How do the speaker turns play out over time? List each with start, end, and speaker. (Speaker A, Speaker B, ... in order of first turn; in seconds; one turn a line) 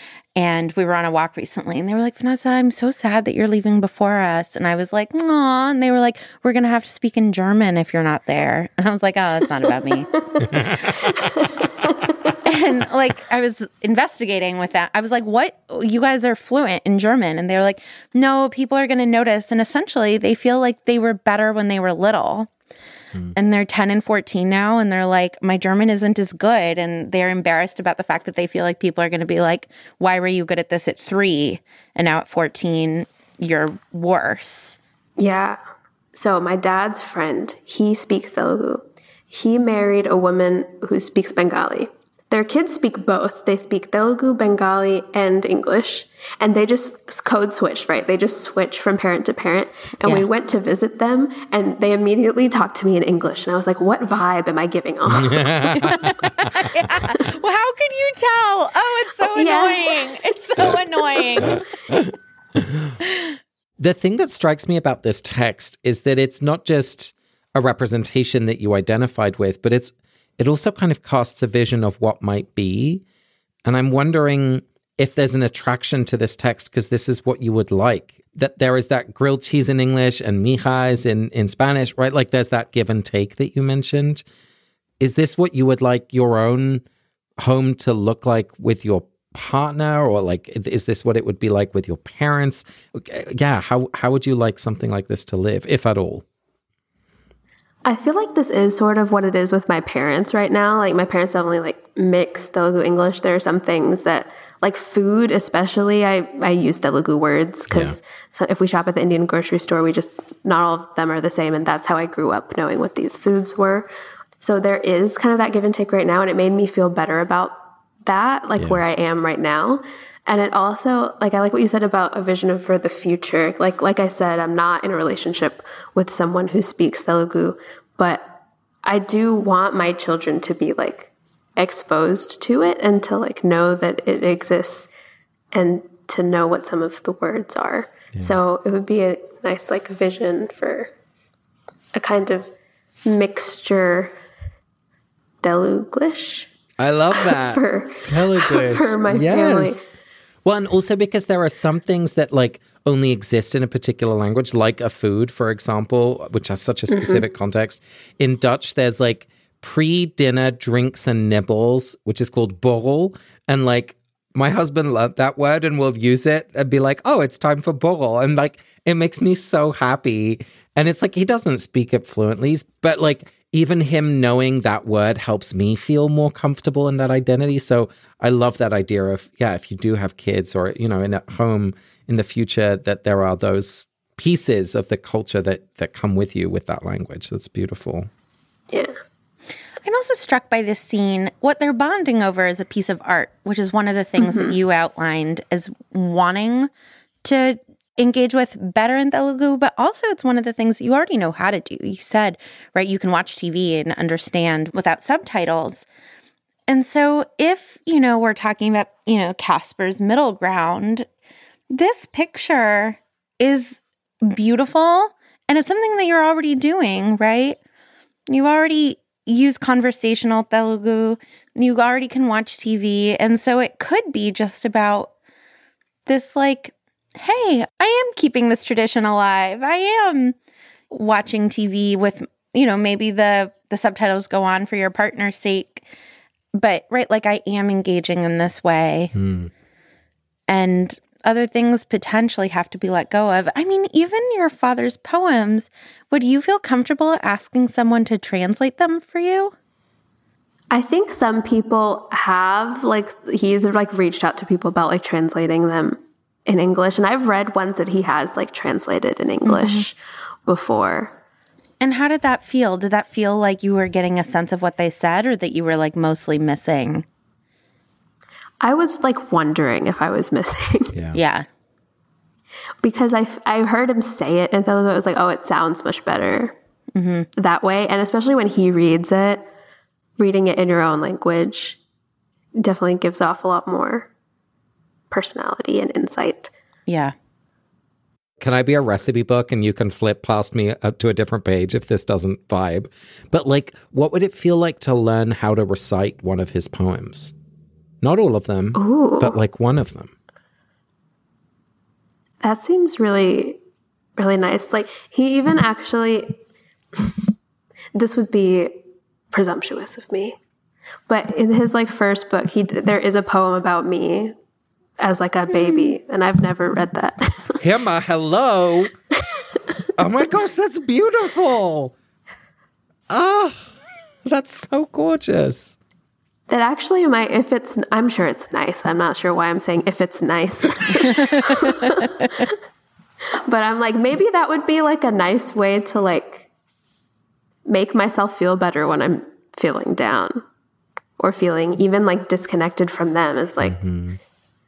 Speaker A: 0.3-10.1
Speaker B: 10.2-12.1
Speaker A: 12.4-22.5
Speaker A: 23.4-34.8
Speaker B: 35.2-35.6
Speaker B: 36.1-56.0
Speaker C: 55.1-56.6
Speaker A: 55.7-61.6
Speaker B: 59.2-61.6
Speaker C: 61.9-62.9
Speaker C: 63.8-73.0
Speaker C: 73.7-84.2
Speaker C: 85.0-86.8
Speaker C: 87.4-96.2
Speaker B: 97.8-113.9
Speaker C: 107.7-108.0
Speaker B: 114.4-128.3
Speaker B: 128.8-134.9
Speaker B: 135.5-140.9
Speaker B: 141.9-142.5
Speaker B: 143.0-144.1
Speaker B: 145.4-146.5
Speaker C: 146.8-149.8
Speaker B: 147.2-149.8
Speaker C: 150.4-188.1
Speaker B: 156.9-157.2
Speaker A: 189.8-196.7
Speaker B: 194.2-194.5
Speaker A: 197.2-205.8
Speaker A: 206.7-211.1
Speaker A: 211.7-217.6
Speaker A: 218.3-225.1
Speaker A: 226.1-230.3
Speaker A: 230.9-235.9
Speaker A: 236.5-239.1
Speaker C: 239.1-239.5
Speaker A: 240.5-249.5
Speaker B: 250.7-261.1
Speaker A: 259.4-259.9
Speaker A: 261.8-267.0
Speaker B: 268.6-270.9
Speaker C: 270.9-271.2
Speaker A: 271.1-271.4
Speaker B: 272.8-276.5
Speaker A: 276.9-277.3
Speaker B: 277.4-279.4
Speaker B: 280.2-281.8
Speaker B: 282.6-284.1
Speaker B: 285.1-286.5
Speaker A: 286.9-287.1
Speaker C: 288.4-297.3
Speaker C: 298.0-300.1
Speaker B: 298.8-299.3
Speaker B: 302.4-303.6
Speaker B: 304.2-306.4
Speaker B: 307.9-308.8
Speaker B: 309.3-310.4
Speaker B: 311.1-314.3
Speaker B: 315.0-317.6
Speaker A: 315.5-315.9
Speaker C: 317.6-318.9
Speaker C: 320.0-321.9
Speaker C: 323.1-323.7
Speaker C: 324.2-325.7
Speaker B: 326.5-332.6
Speaker B: 333.5-336.5
Speaker B: 337.6-340.4
Speaker B: 341.2-343.8
Speaker C: 343.6-344.2